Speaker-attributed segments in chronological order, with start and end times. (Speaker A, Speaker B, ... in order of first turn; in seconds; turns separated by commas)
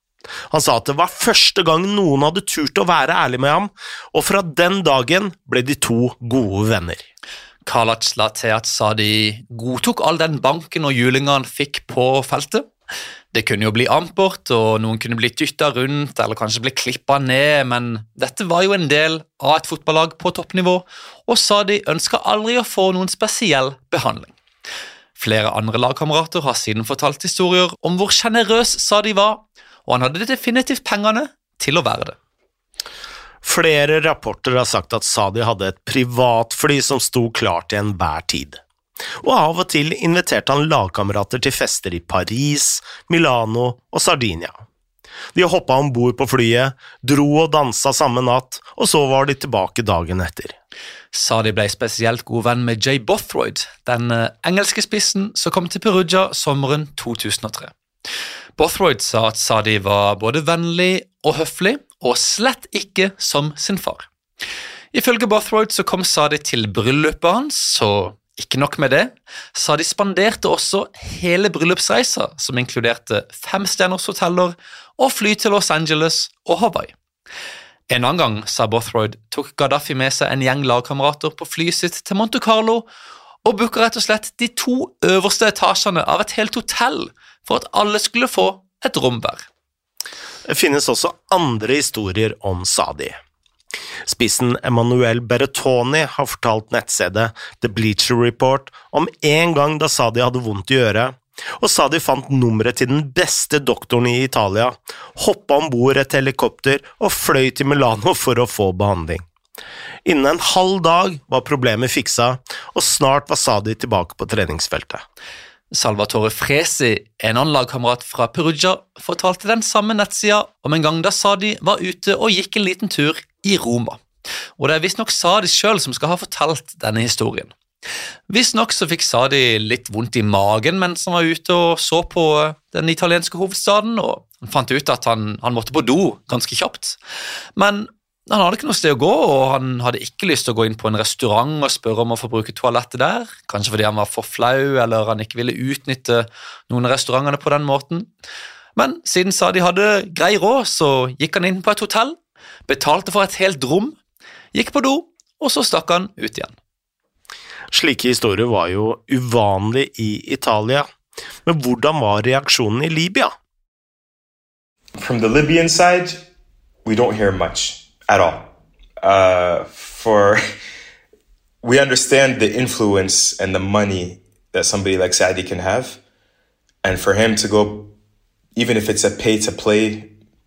Speaker A: 0.5-7.0, Speaker B: 7.6-12.7, Speaker B: 13.3-24.3, Speaker B: 25.2-32.2, Speaker A: 33.4-38.6, Speaker A: 39.2-44.6, Speaker A: 45.3-50.5, Speaker B: 51.1-57.7, Speaker B: 58.6-64.1, Speaker B: 64.9-76.9, Speaker B: 77.9-82.9, Speaker B: 83.4-89.5, Speaker A: 90.5-93.2, Speaker A: 94.0-109.2, Speaker A: 110.0-115.0, Speaker B: 115.7-124.0, Speaker B: 124.6-127.5, Speaker B: 128.3-137.0, Speaker B: 137.6-148.1, Speaker B: 148.8-154.0, Speaker B: 154.5-156.6, Speaker A: 157.7-160.9, Speaker A: 161.4-163.3, Speaker C: 165.0-166.2, Speaker C: 166.8-170.4, Speaker C: 171.6-176.0, Speaker C: 176.8-177.9, Speaker C: 178.5-180.1